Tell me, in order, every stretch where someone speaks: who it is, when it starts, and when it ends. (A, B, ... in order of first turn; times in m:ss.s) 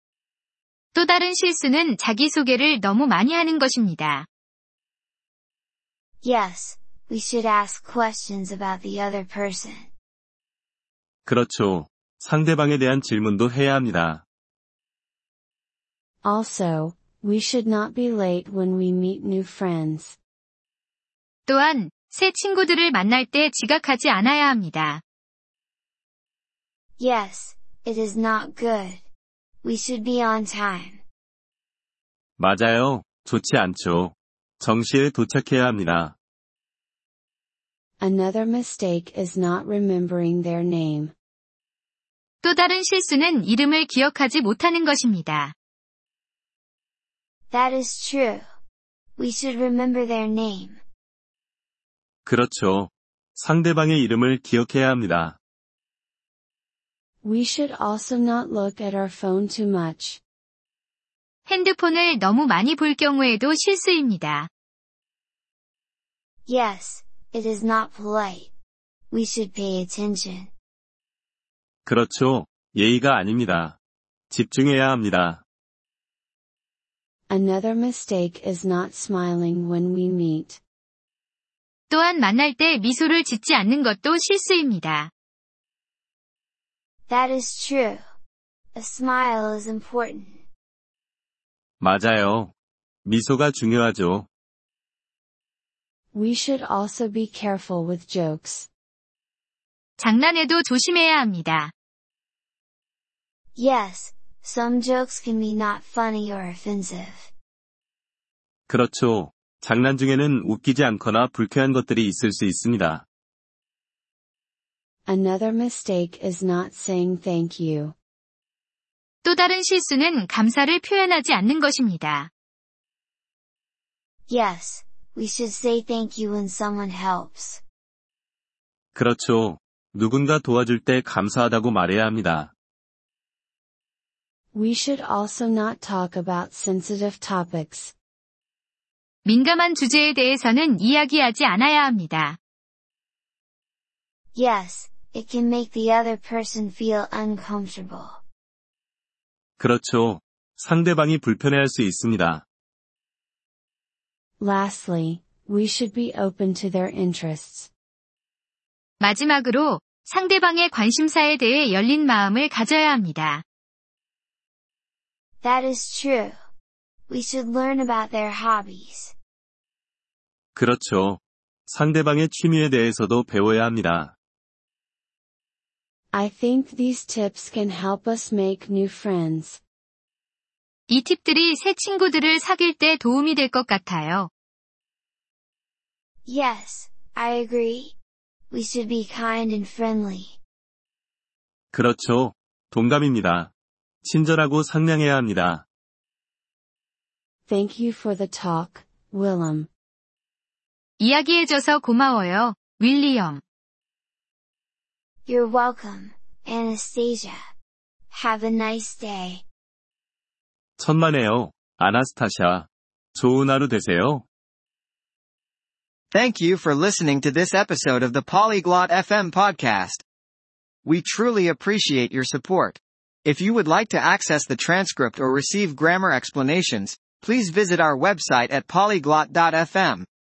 0:00.9-0:04.3 A
0:06.2-0:09.9 B
0:11.2-0:14.2 C
0:16.2-0:20.2 D
0:21.5-0:25.0 A
0:27.0-0:29.0 B
0:29.6-0:31.0 B
0:32.4-0:36.2 C
0:38.0-0:41.1 D
0:42.4-0:45.5 A
0:47.5-0:48.4 B
0:49.2-0:50.8 B
0:52.2-0:55.4 C
0:57.2-1:00.2 D
1:01.5-1:04.5 A
1:06.5-1:08.5 B
1:09.1-1:10.5 B
1:11.8-1:13.8 C
1:14.3-1:15.4 C
1:17.3-1:20.6 D
1:21.9-1:25.1 A
1:27.1-1:28.0 B
1:28.8-1:30.4 B
1:31.8-1:32.5 C
1:33.0-1:34.3 C
1:36.1-1:38.7 D
1:40.0-1:41.7 A
1:43.6-1:47.3 B
1:48.7-1:53.0 C
1:55.1-1:58.0 D
1:59.2-2:02.3 A
2:04.3-2:07.6 B
2:08.9-2:12.5 C
2:14.5-2:17.9 D
2:19.2-2:22.4 A
2:24.4-2:28.2 B
2:29.6-2:32.4 C
2:34.4-2:37.7 D
2:39.0-2:43.4 A
2:45.4-2:46.3 B
2:47.1-2:49.1 B
2:50.6-2:54.2 C
2:56.1-2:59.6 D
3:00.9-3:04.3 A
3:06.3-3:07.9 B
3:08.5-3:10.4 B
3:11.7-3:13.5 C
3:14.0-3:15.6 C
3:17.5-3:19.7 D
3:21.0-3:23.4 A
3:25.3-3:27.4 B
3:28.1-3:29.4 B
3:30.8-3:34.2 C
3:36.1-3:40.0 E
3:40.8-3:50.1 E